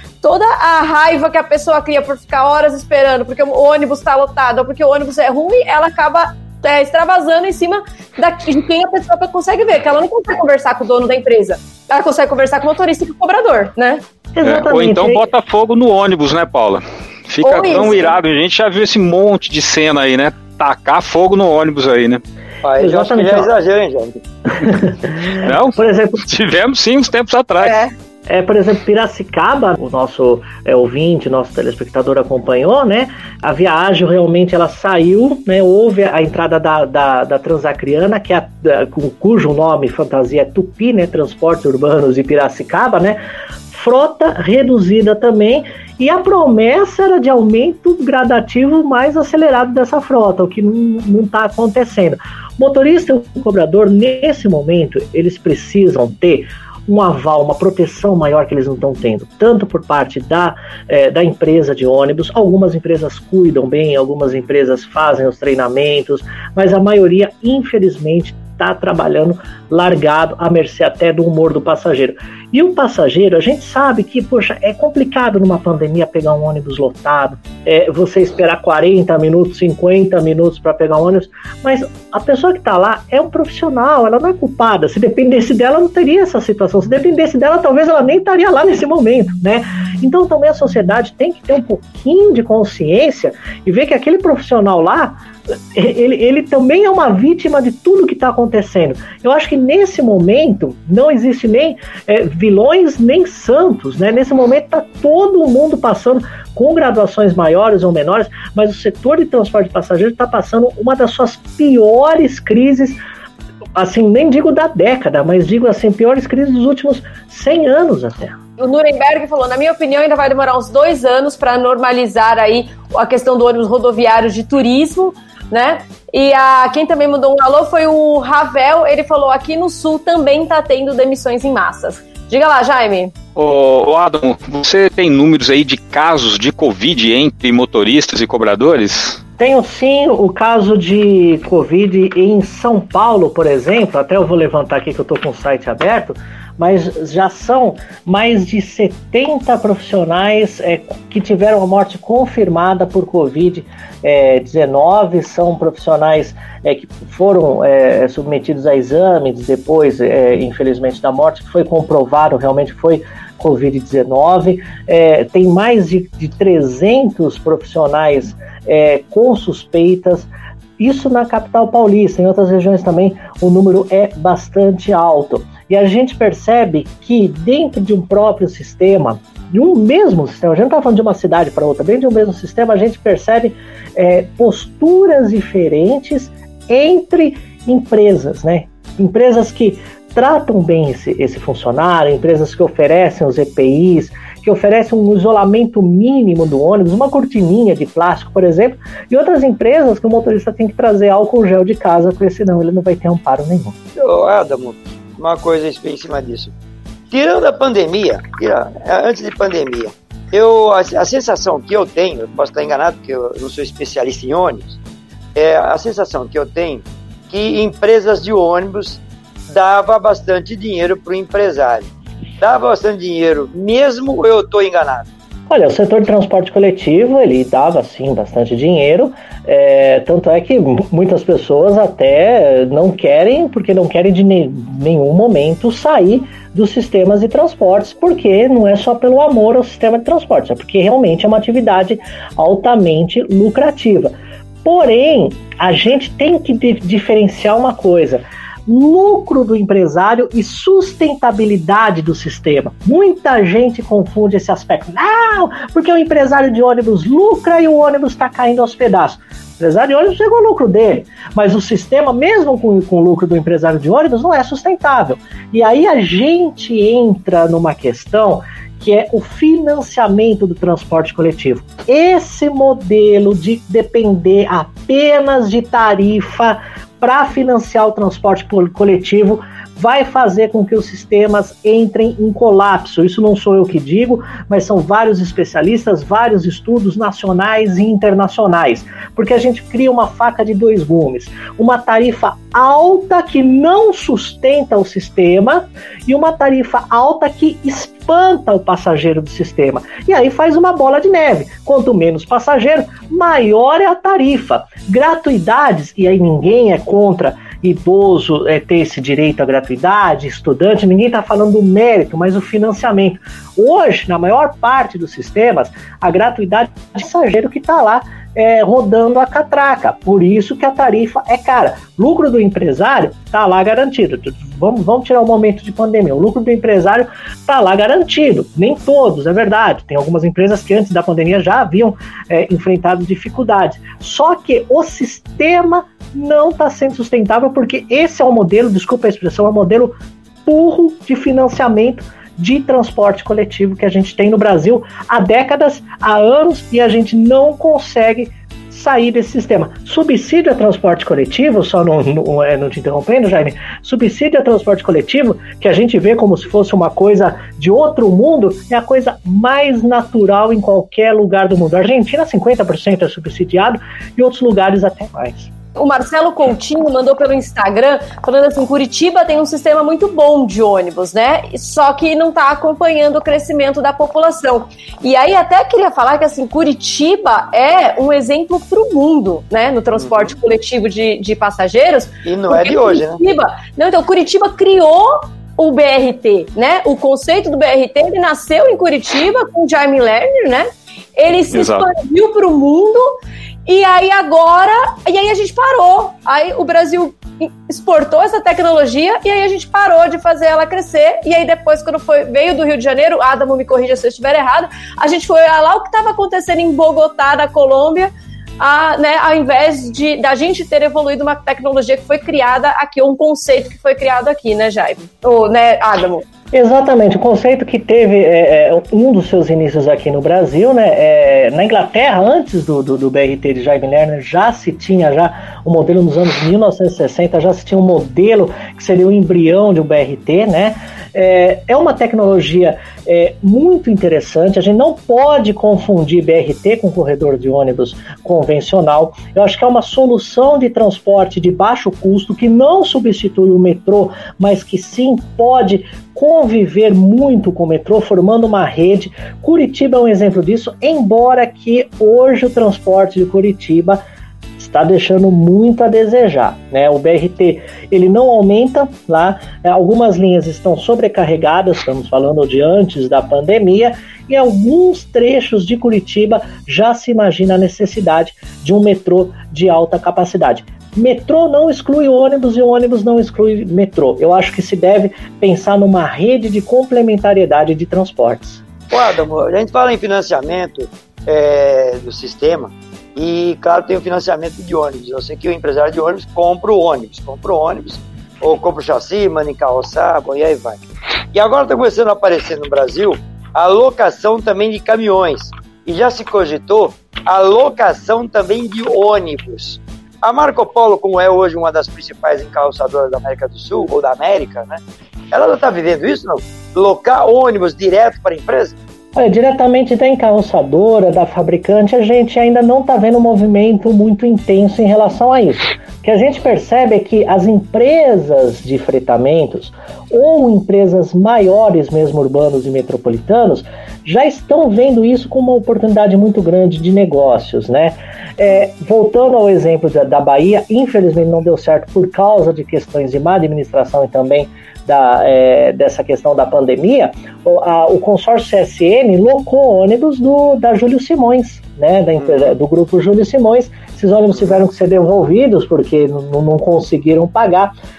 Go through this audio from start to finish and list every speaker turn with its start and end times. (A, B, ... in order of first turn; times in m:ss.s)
0:00.2-0:14.0 A
0:14.4-0:15.3 B
0:14.4-0:22.2 C
0:17.4-0:18.2 A
0:22.6-0:24.2 D
0:22.8-0:23.5 B
0:24.5-0:26.2 B
0:25.3-0:27.8 C
0:27.6-0:27.9 A
0:28.3-1:35.2 B
1:35.7-1:53.0 B
1:53.8-1:58.4 B
1:58.6-2:13.1 A
2:13.4-2:19.2 C
2:19.4-3:23.8 B
3:24.0-3:26.5 D
3:27.1-3:34.8 D
3:35.4-3:45.1 D
3:45.5-4:04.1 B
4:04.6-5:39.9 B
5:40.5-6:05.5 B
6:05.8-6:33.1 A
6:20.0-6:20.3 D
6:22.2-6:23.2 D
6:31.5-6:31.9 C
6:33.7-6:56.2 A
6:56.5-7:34.0 B
7:34.6-7:58.6 B
7:58.9-8:10.8 D
8:11.3-8:24.8 D
8:25.3-8:28.8 D
8:29.2-9:07.7 B
9:02.2-9:02.5 D